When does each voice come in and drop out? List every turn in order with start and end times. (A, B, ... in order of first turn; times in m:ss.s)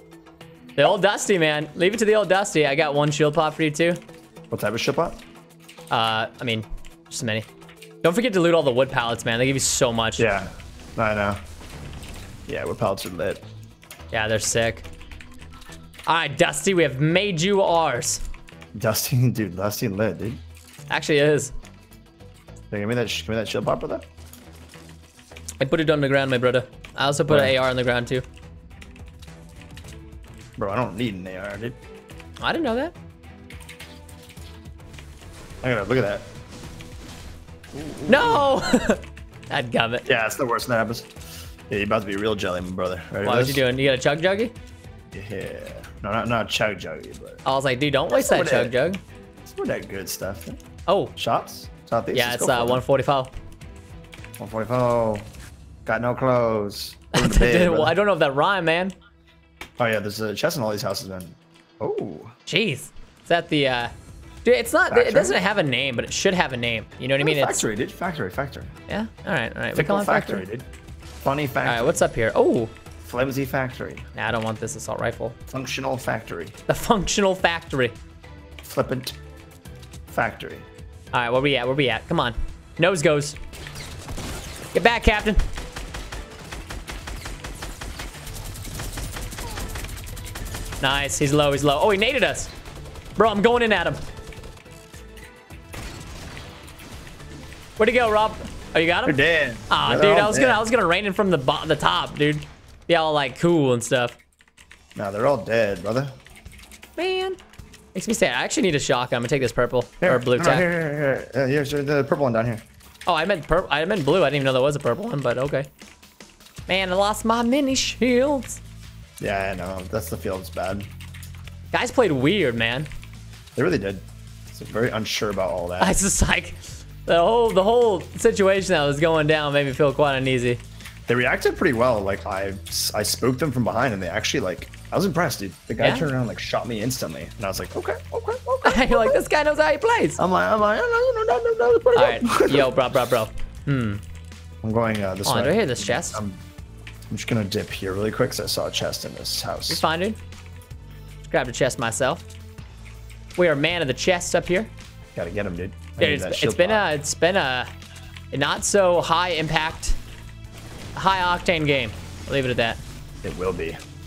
0:00.8-0:04.0 A
0:04.5-0:05.2 B
0:05.9-0:07.5 A
0:08.0-0:10.3 A
0:10.2-0:11.4 B
0:12.5-0:13.4 B
0:14.1-0:14.8 A
0:16.1-0:18.2 A
0:18.8-0:20.4 B
0:20.9-0:21.5 A
0:22.7-0:24.0 B
0:25.6-0:28.2 A
0:27.3-0:27.6 B
0:30.6-0:31.8 B
0:32.4-0:32.9 A
0:35.6-0:36.3 B
0:37.7-0:38.5 B
0:38.1-0:40.1 A
0:40.1-0:41.1 B
0:41.7-0:43.6 B
0:43.2-0:44.5 A
0:45.1-0:47.4 B
0:47.4-0:49.0 A
0:48.1-0:48.7 B
0:49.4-0:50.6 B
0:50.9-0:51.1 A
0:51.2-0:52.8 B
0:52.1-0:53.3 A
0:54.4-0:55.3 B
0:55.9-0:58.0 B
0:57.1-0:58.9 A
0:59.8-1:02.3 B
1:02.5-1:03.9 A
1:04.4-1:07.6 A
1:04.9-1:05.4 B
1:07.2-1:08.7 B
1:08.9-1:10.4 A
1:09.8-1:10.7 B
1:11.2-1:12.1 B
1:11.6-1:12.7 A
1:13.0-1:14.1 B
1:14.2-1:15.4 A
1:15.5-1:16.6 B
1:16.7-1:17.9 A
1:18.6-1:19.1 B
1:20.1-1:20.7 B
1:21.1-1:23.4 A
1:24.7-1:25.4 A
1:30.8-1:32.5 A
1:33.2-1:34.0 A
1:37.8-1:44.2 A
1:39.1-1:40.6 B
1:44.9-1:46.1 B
1:47.0-1:47.4 A
1:47.9-1:50.7 A
1:50.0-1:52.6 B
1:53.1-1:55.7 A
1:56.7-1:58.6 A
1:59.2-2:00.9 B
2:01.7-2:02.9 A
2:03.6-2:06.0 B
2:05.8-2:10.6 A
2:11.1-2:19.2 B
2:15.8-2:16.1 A
2:18.6-2:20.2 A
2:20.2-2:22.7 B
2:21.9-2:24.0 A
2:24.6-2:26.4 B
2:25.2-2:26.2 A
2:27.1-2:29.8 B
2:29.7-2:30.2 A
2:31.3-2:32.2 A
2:33.4-2:34.7 A
2:35.1-2:36.9 B
2:36.0-2:37.7 A
2:38.3-2:40.0 A
2:41.0-2:42.8 A
2:43.2-2:43.8 B